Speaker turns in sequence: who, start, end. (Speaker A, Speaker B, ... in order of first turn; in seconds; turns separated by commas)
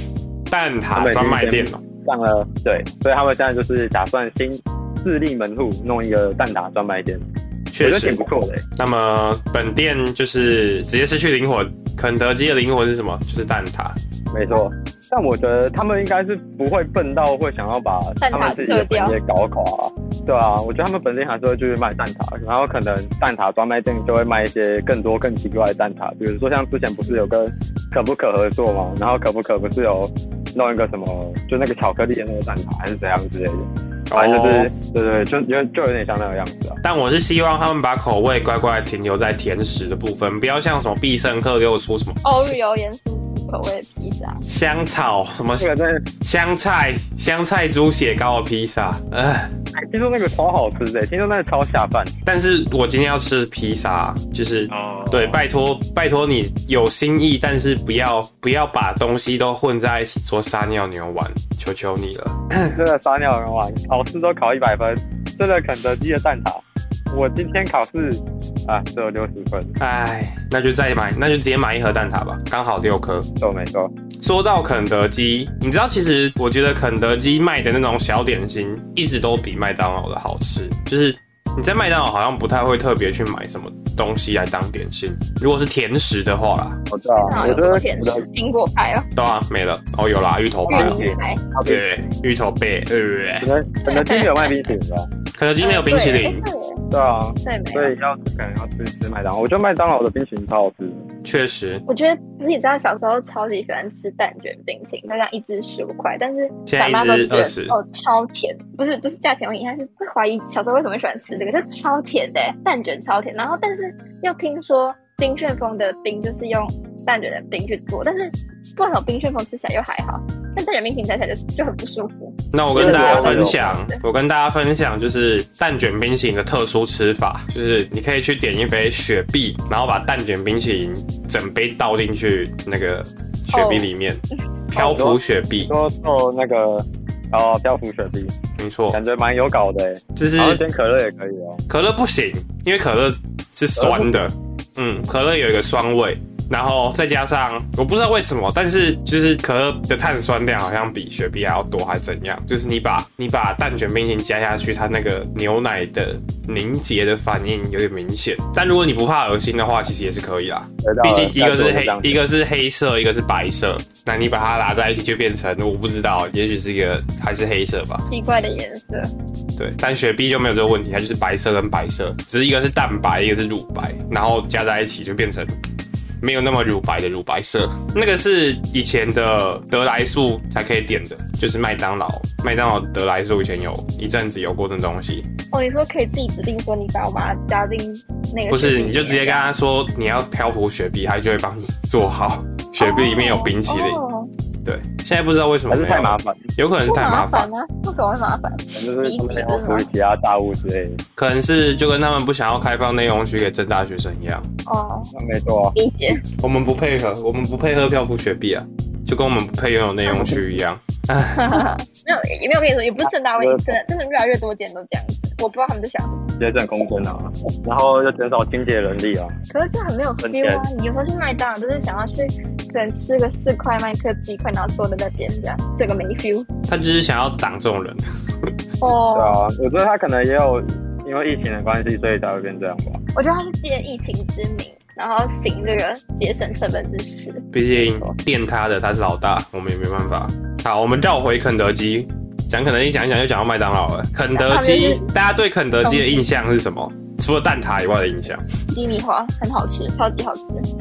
Speaker A: 0.5-1.8, Speaker B: 0.9-7.2, Speaker A: 7.7-8.2, Speaker B: 7.8-8.7, Speaker A: 8.8-13.9, Speaker B: 14.3-36.8, Speaker C: 18.2-19.1, Speaker A: 34.1-34.7, Speaker A: 36.8-42.5, Speaker C: 42.2-44.4, Speaker A: 44.5-49.5, Speaker B: 45.6-46.1, Speaker B: 49.7-52.1, Speaker A: 52.2-62.8, Speaker B: 54.7-55.4, Speaker B: 62.7-69.8, Speaker A: 69.8-73.3, Speaker B: 73.4-73.9, Speaker A: 74.2-86.8, Speaker B: 86.9-88.2, Speaker C: 87.2-89.1, Speaker A: 89.2-91.0, Speaker B: 90.7-91.8, Speaker C: 90.7-91.4, Speaker A: 91.6-93.5, Speaker B: 93.4-95.1, Speaker C: 93.8-94.6, Speaker A: 95.4-96.4, Speaker C: 95.6-96.8, Speaker B: 96.9-101.0, Speaker C: 97.4-97.9, Speaker A: 101.2-101.8, Speaker C: 101.9-124.0, Speaker A: 106.7-107.8, Speaker A: 122.5-135.7, Speaker B: 122.7-123.8, Speaker C: 133.5-133.9, Speaker B: 134.7-138.3, Speaker A: 138.6-139.0, Speaker B: 138.9-141.6, Speaker A: 140.2-140.6, Speaker A: 141.7-168.1, Speaker B: 143.8-144.2, Speaker B: 160.8-162.2, Speaker C: 168.1-169.1, Speaker A: 169.6-175.5, Speaker A: 176.2-185.3, Speaker C: 185.5-189.5, Speaker A: 188.5-194.0, Speaker C: 192.8-194.3, Speaker A: 194.6-197.5, Speaker B: 195.7-196.5, Speaker C: 196.8-199.9, Speaker B: 198.7-201.0, Speaker A: 201.2-204.5, Speaker C: 204.7-205.1, Speaker B: 205.1-205.7, Speaker C: 205.7-206.2, Speaker A: 206.4-211.7, Speaker C: 210.1-210.4, Speaker C: 211.3-216.3, Speaker B: 213.4-213.8, Speaker B: 216.4-219.4, Speaker C: 219.5-226.5, Speaker B: 220.2-220.7, Speaker A: 226.7-228.0, Speaker C: 228.8-229.4, Speaker B: 229.1-233.0, Speaker C: 233.1-238.2, Speaker A: 237.5-248.4, Speaker C: 244.3-245.1, Speaker C: 245.8-246.3, Speaker C: 248.7-250.6